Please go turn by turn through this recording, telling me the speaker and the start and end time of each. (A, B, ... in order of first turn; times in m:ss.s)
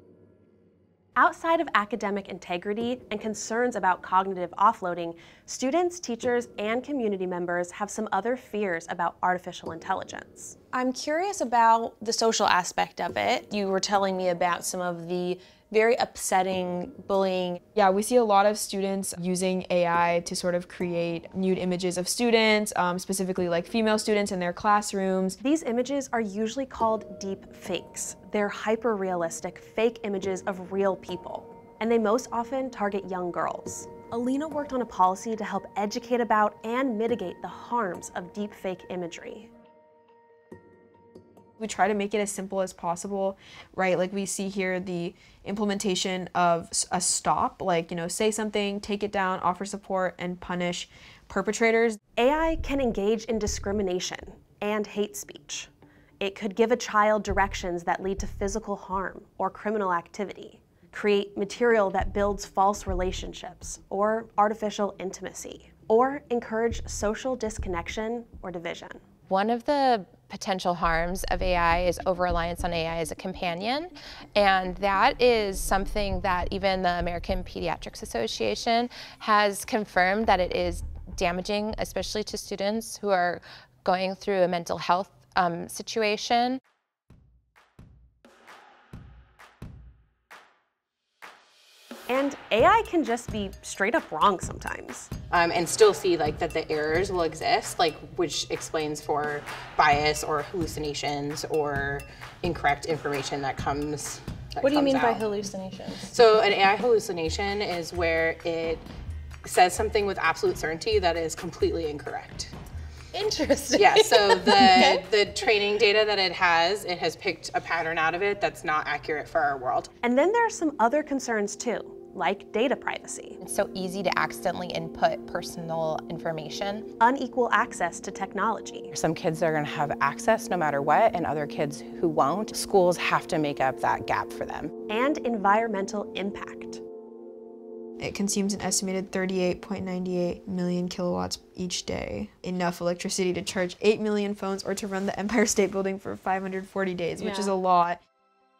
0:01.2-0:10.6 A
0:10.7-0:17.6 B
0:17.8-0:25.4 C
0:25.4-0:39.5 A
0:41.6-0:52.0 C
0:52.2-1:09.0 A
1:09.3-1:26.6 D
1:32.1-1:35.1 A
1:35.3-1:45.4 E
1:44.6-1:46.1 B
1:46.0-1:48.9 E
1:49.4-1:52.5 E
1:53.2-1:54.9 B
1:53.7-1:59.9 E
2:00.0-2:03.4 A
2:03.4-2:06.9 D
2:07.0-2:08.9 A
2:08.9-2:14.7 E
2:14.9-2:16.8 A
2:18.0-2:28.0 C